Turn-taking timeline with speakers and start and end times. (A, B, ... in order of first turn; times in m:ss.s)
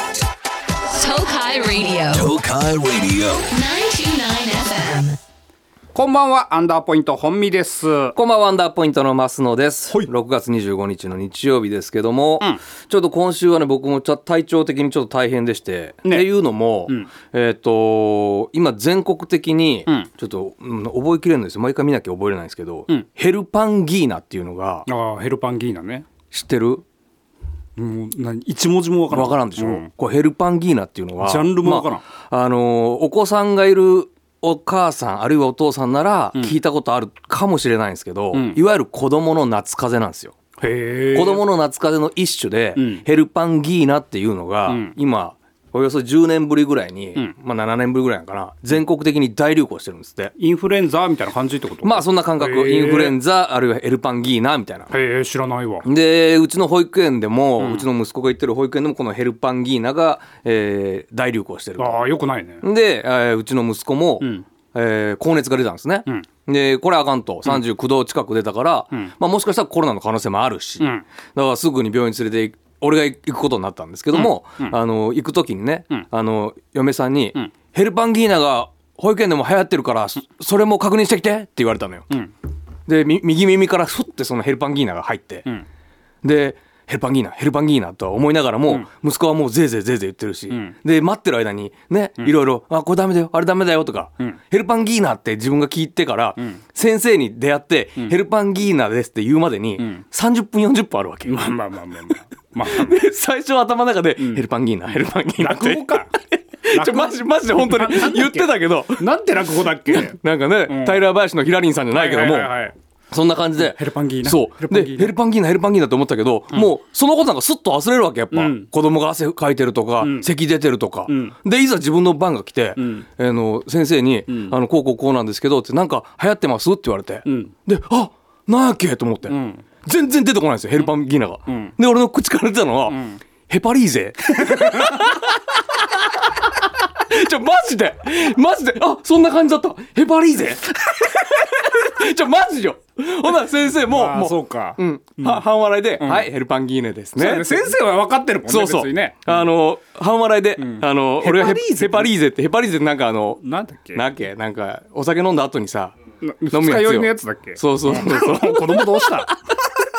0:00.9-0:02.3 A
0:02.1-0:03.5 B
0:03.5-0:05.2 A
0:05.9-0:08.2 C
0:08.2-0:24.9 B
0:16.9-0:17.1 C
0:24.9-0:26.1 C
0:26.3-0:26.8 B
0:27.8-0:29.9 C
0:29.1-0:40.4 B
0:31.2-0:32.0 C
0:38.3-0:38.6 C
0:40.6-0:41.4 C
0:41.1-0:50.3 B
0:42.8-0:43.0 C
0:44.7-0:45.0 C
0:50.4-0:53.2 C
0:51.8-0:54.9 B
0:54.9-0:55.9 C
0:55.8-1:02.0 B
0:57.6-0:57.9 C
1:01.8-1:02.6 C
1:02.6-1:22.1 B
1:04.2-1:04.5 C
1:10.8-1:11.1 C
1:14.1-1:14.8 C
1:22.9-1:25.5 B
1:26.2-1:41.5 B
1:30.5-1:30.8 C
1:39.8-1:40.0 C
1:41.2-1:43.1 C
1:42.7-1:49.0 B
1:44.2-1:44.4 C
1:45.4-1:46.2 C
1:46.7-1:51.1 C
1:49.9-1:52.5 B
1:51.9-1:52.8 C
1:53.1-2:27.7 B
1:53.6-1:55.2 C
1:58.3-1:58.7 C
2:00.0-2:00.3 C
2:01.1-2:01.4 C
2:02.8-2:03.1 C
2:04.3-2:04.6 C
2:07.2-2:07.5 C
2:09.3-2:09.6 C
2:11.5-2:11.8 C
2:12.9-2:13.2 C
2:14.3-2:15.2 C
2:23.9-2:25.5 C
2:26.0-2:26.3 C
2:27.2-2:29.4 C
2:28.5-2:33.4 B
2:30.6-2:32.1 C
2:33.4-2:34.0 C
2:33.9-2:36.0 B
2:36.2-2:39.3 C
2:36.5-2:39.6 B